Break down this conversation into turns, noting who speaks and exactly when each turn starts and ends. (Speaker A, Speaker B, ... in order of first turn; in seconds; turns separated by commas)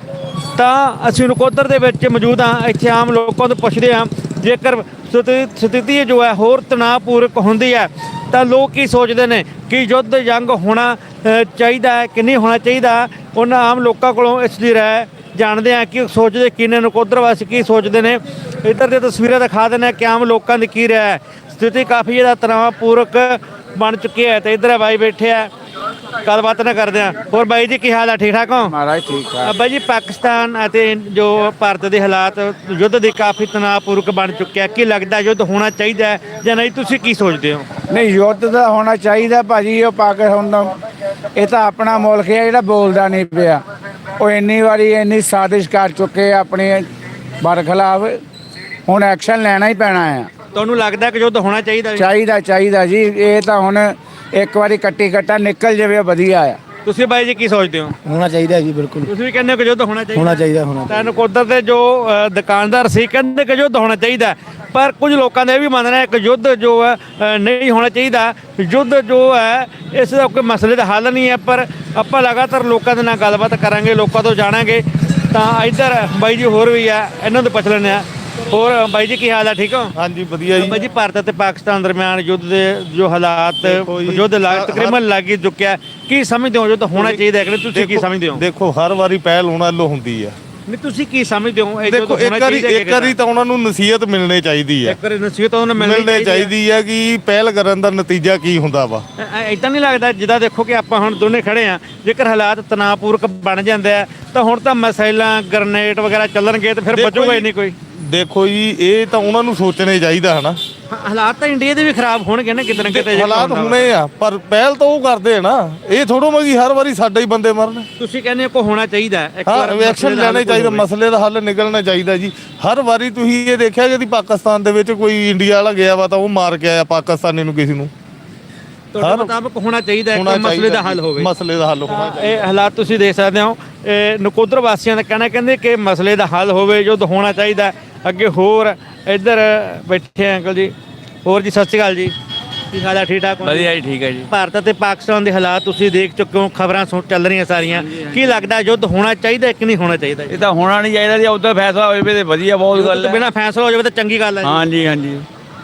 Speaker A: 0.5-25.5, Speaker A: 26.2-28.8, Speaker B: 28.6-29.5, Speaker A: 29.4-37.7, Speaker B: 37.9-40.8, Speaker B: 41.4-43.6, Speaker B: 44.2-46.8, Speaker B: 47.4-48.1, Speaker B: 48.9-50.3, Speaker A: 50.5-52.1, Speaker B: 52.0-56.6, Speaker A: 56.8-57.9, Speaker C: 58.0-59.1, Speaker A: 59.0-79.9, Speaker C: 60.1-61.1, Speaker D: 80.0-80.8, Speaker A: 80.5-88.4, Speaker D: 83.6-85.0, Speaker D: 86.9-87.2, Speaker D: 87.7-90.3, Speaker A: 90.7-93.2, Speaker D: 91.8-95.0, Speaker A: 94.8-96.5, Speaker D: 95.8-99.0, Speaker A: 99.2-107.8, Speaker D: 106.9-110.6, Speaker A: 110.9-113.9, Speaker D: 112.7-117.9, Speaker A: 118.0-120.9, Speaker D: 119.5-127.9, Speaker A: 128.9-131.3, Speaker D: 129.0-129.3, Speaker D: 130.1-132.4, Speaker A: 131.8-140.7, Speaker A: 141.2-142.2, Speaker A: 142.7-143.7, Speaker E: 143.4-144.3, Speaker A: 144.3-150.4, Speaker E: 147.8-148.3, Speaker E: 150.3-153.2, Speaker A: 152.7-154.6, Speaker E: 154.4-155.2